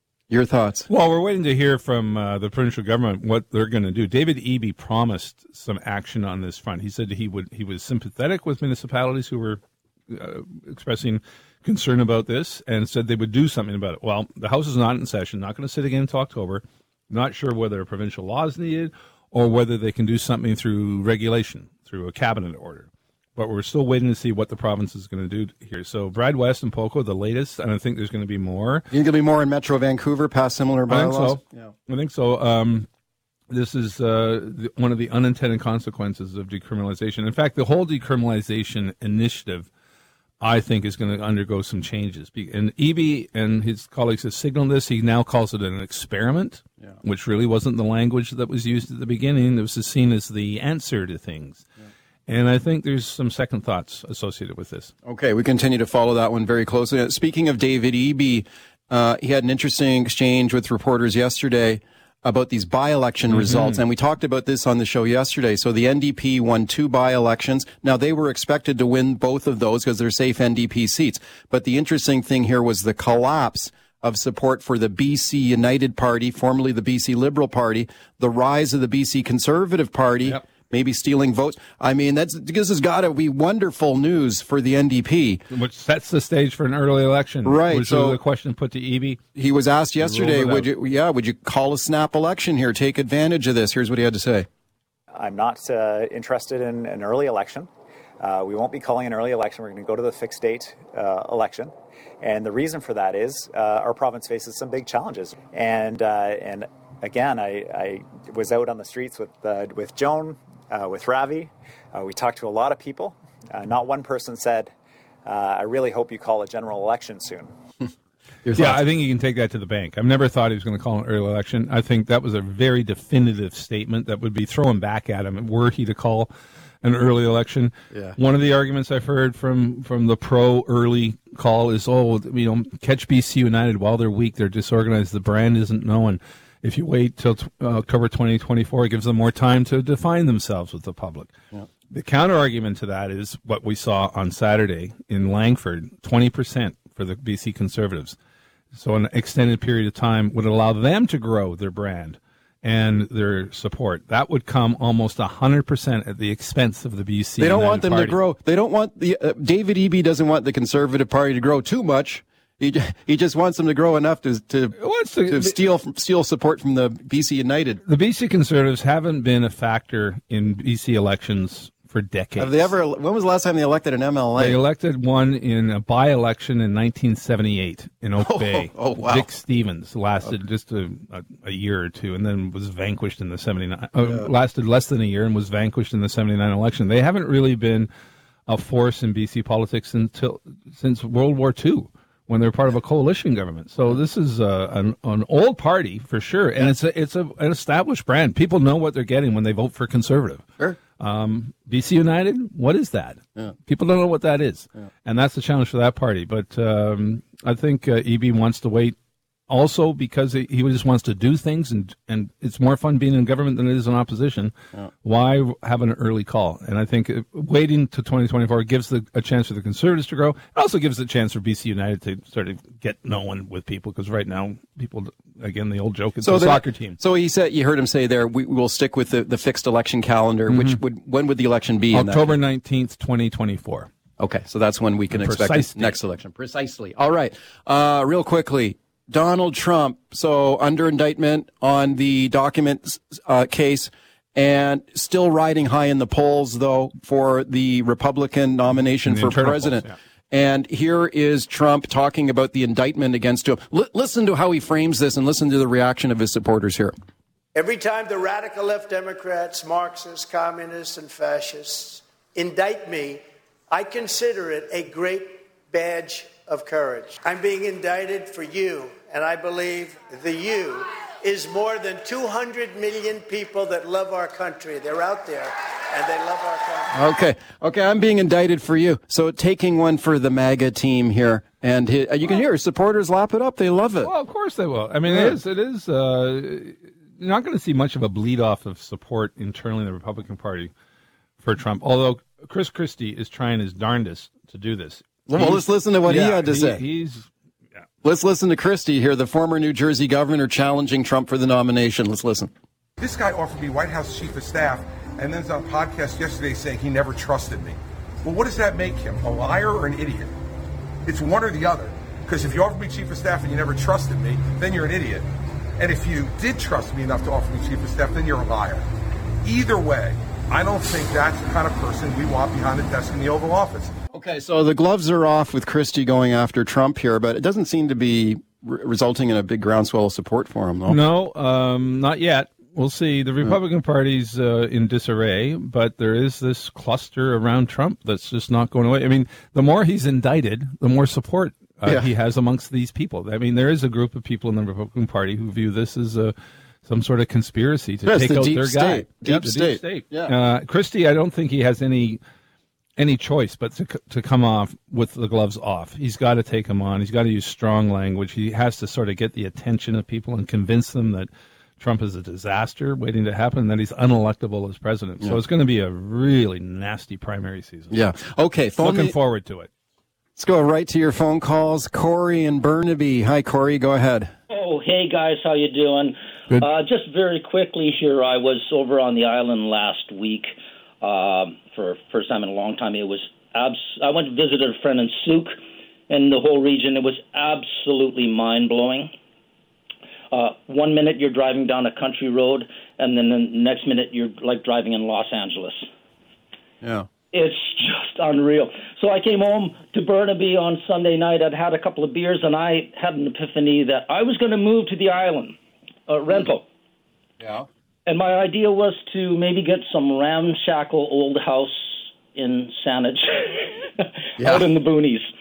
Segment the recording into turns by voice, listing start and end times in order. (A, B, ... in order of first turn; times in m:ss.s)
0:00.3-0:00.8 A
0:00.9-0:28.8 B
0:28.9-0:31.7 A
0:30.9-0:32.9 B
0:33.5-0:39.7 B
0:40.4-0:51.6 B
0:52.3-0:54.9 B
0:55.0-1:25.4 A
1:03.3-1:03.8 B
1:25.5-1:29.2 B
1:27.4-1:28.2 A
1:29.3-1:34.5 A
1:30.0-1:30.7 B
1:35.1-1:37.7 C
1:38.2-1:54.7 C
1:55.2-1:57.5 C
1:58.4-1:58.8 A
1:58.6-2:06.3 B
2:06.8-2:21.3 B
2:07.9-2:08.2 A
2:21.9-2:28.2 B
2:28.7-2:38.2 B
2:37.4-2:44.8 A
2:44.8-2:45.6 B
2:45.3-2:47.8 A
2:47.8-2:52.7 B
2:52.4-2:54.6 A
2:54.4-3:07.9 B
2:58.2-2:59.3 A
3:08.5-3:28.9 B
3:29.5-3:34.5 B
3:35.0-3:47.0 B
3:46.2-3:52.4 A
3:50.5-3:50.8 B
3:51.9-3:53.9 B
3:54.2-4:16.9 A
3:55.1-3:56.0 B
4:09.0-4:09.9 B
4:17.5-4:37.0 D
4:36.9-4:44.1 A
4:44.0-4:50.7 B
4:45.1-4:45.3 A
4:51.4-4:57.3 B
4:55.3-4:56.8 A
4:58.0-5:02.5 A
5:03.0-5:10.3 E
5:11.0-5:15.3 E
5:15.8-5:18.8 E
5:19.4-5:23.9 E
5:24.1-5:31.0 A
5:30.9-5:46.3 B
5:46.8-5:52.2 B
5:48.0-5:50.3 A
5:53.0-6:01.3 B
6:01.8-6:08.0 B
6:07.9-6:09.1 A
6:08.8-6:09.7 B
6:10.4-6:14.3 A
6:14.5-6:25.6 F
6:26.1-6:29.1 F
6:30.3-6:35.9 F
6:36.8-6:37.1 A
6:37.3-6:45.6 F
6:46.1-6:46.6 F
6:47.4-6:47.7 A
6:48.0-6:55.2 F
6:54.4-6:54.7 A